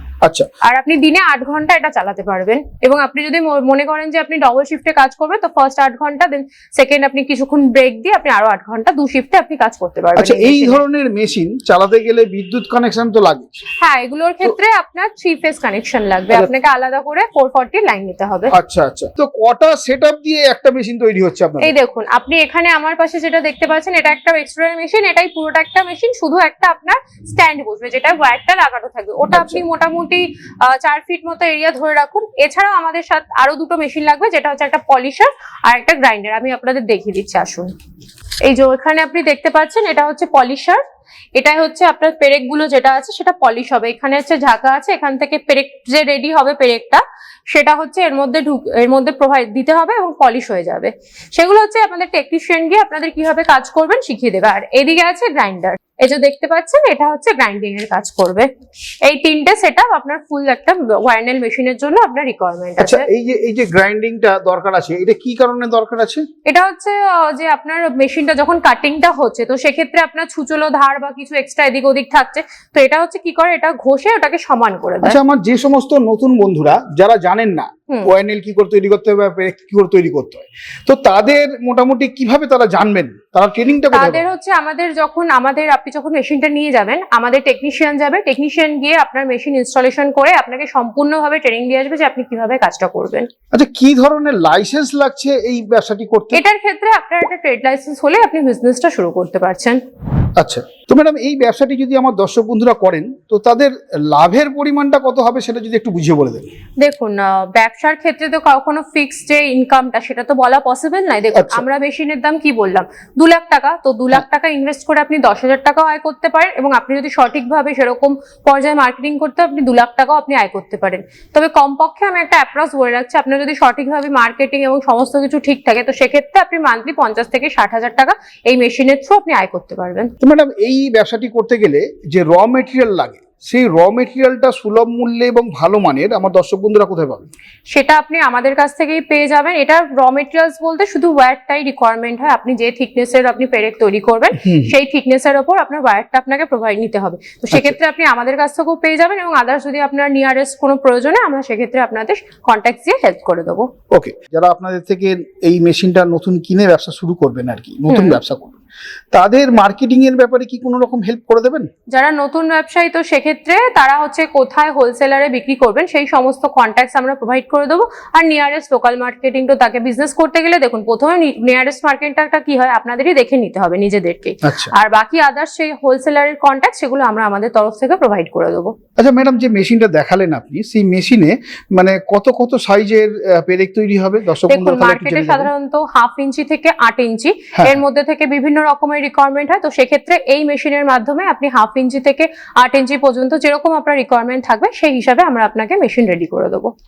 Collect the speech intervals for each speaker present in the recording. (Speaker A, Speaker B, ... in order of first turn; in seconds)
Speaker A: 0.6-10.8, 13.8-18.5, 21.6-37.7, 38.5-40.8, 41.4-58.5, 59.0-63.1, 66.5-75.2, 83.9-93.3, 96.3-99.8, 106.8-130.1, 137.7-153.7, 157.9-158.2, 161.9-178.7, 184.5-196.7
Speaker B: 10.2-13.6, 18.5-21.7, 29.3-29.6, 62.8-66.2, 75.0-84.2, 93.5-96.4, 100.4-106.5, 111.3-111.7, 130.2-137.3, 144.4-144.7, 147.5-147.8, 153.9-158.6, 159.1-161.7, 174.4-174.7, 179.0-185.5